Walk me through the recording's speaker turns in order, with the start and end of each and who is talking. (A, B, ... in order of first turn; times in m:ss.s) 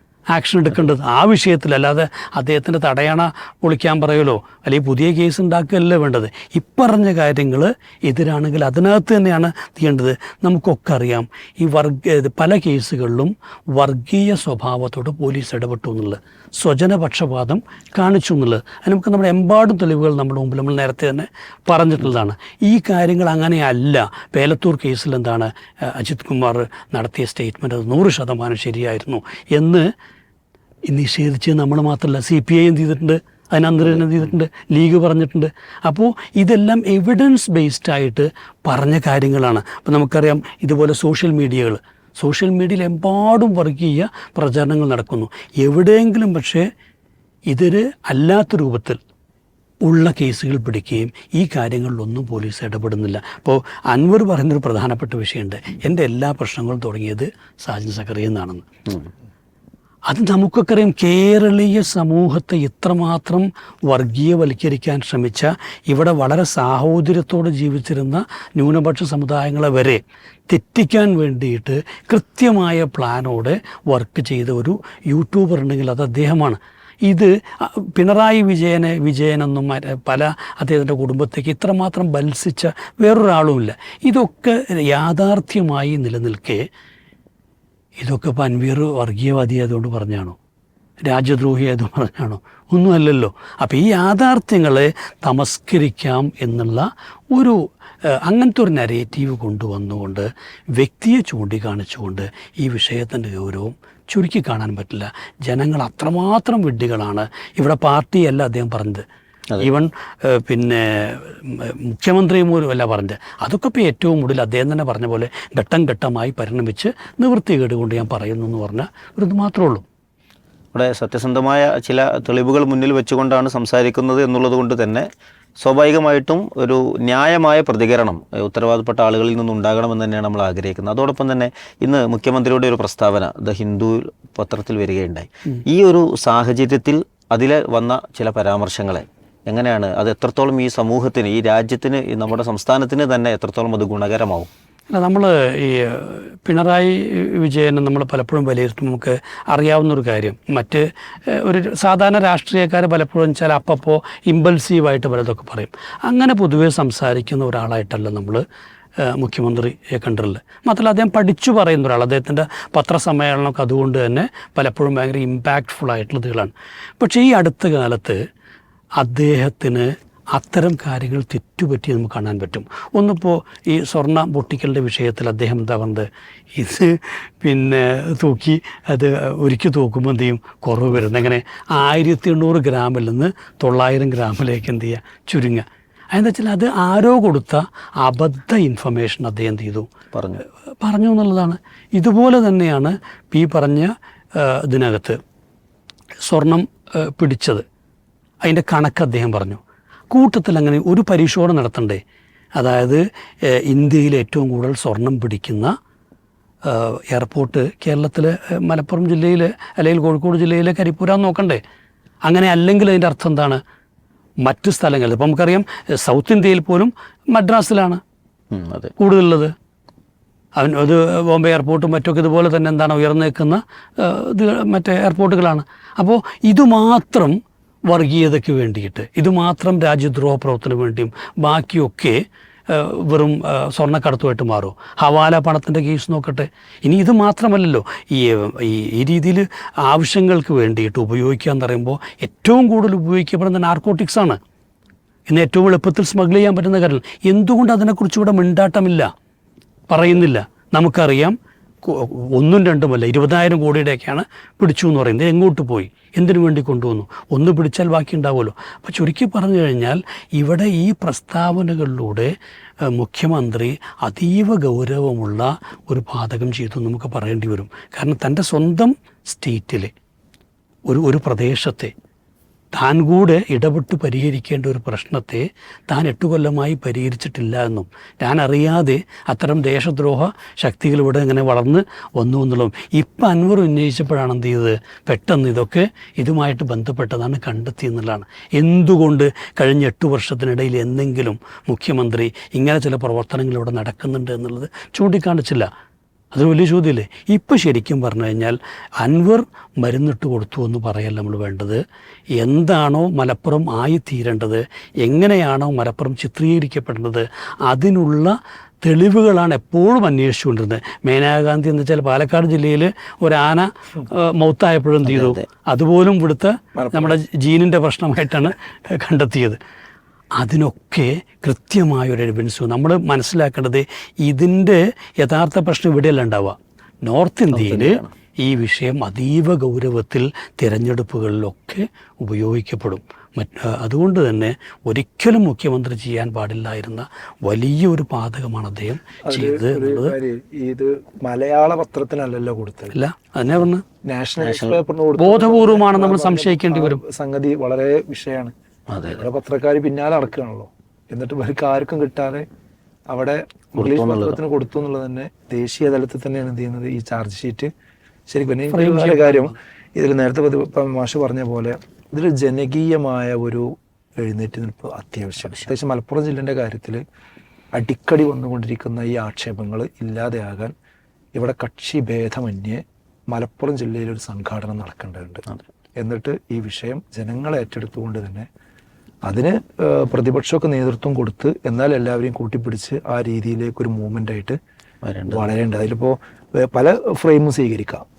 0:00.3-0:29.9 A
0:30.9-0:46.7 A
0:33.9-0:34.2 B
0:47.5-0:49.0 A
0:49.8-0:58.6 A
1:00.1-1:26.6 A
1:28.0-1:30.4 A
1:31.1-1:37.6 A
1:38.2-1:49.0 A
1:49.6-1:59.8 A
2:00.7-2:05.1 B
2:05.6-2:24.5 B
2:24.9-2:38.4 A
2:39.0-2:48.2 A
2:49.0-3:09.9 A
3:10.1-3:10.4 B
3:10.8-3:15.2 A
3:16.3-3:17.6 A
3:18.4-3:22.0 A
3:22.6-3:25.7 A
3:26.6-3:31.6 A
3:32.3-3:33.6 A
3:34.4-3:38.0 A
3:38.5-3:38.9 B
3:39.0-3:39.5 A
3:40.6-3:52.2 A
3:52.7-4:04.4 A
4:05.3-4:09.1 A
4:09.9-4:22.3 A
4:22.9-4:29.9 A
4:30.9-4:31.9 A
4:32.7-4:55.7 A
4:56.3-5:01.8 A
5:02.4-5:19.6 A
5:15.0-5:15.4 B
5:16.7-5:17.2 C
5:20.4-5:40.1 A
5:27.5-5:28.1 B
5:39.2-5:42.9 C
5:42.9-5:43.8 A
5:44.0-5:48.5 C
5:44.4-5:44.8 B
5:45.2-5:47.0 A
5:48.9-5:49.2 B
5:49.0-5:52.4 C
5:53.1-5:57.7 C
5:53.8-5:54.4 B
5:58.3-6:07.0 C
5:58.7-5:59.5 A
6:07.7-6:10.7 C
6:11.4-6:15.4 C
6:16.0-6:18.5 C
6:19.2-6:24.6 C
6:25.0-6:25.5 B
6:25.3-6:28.0 C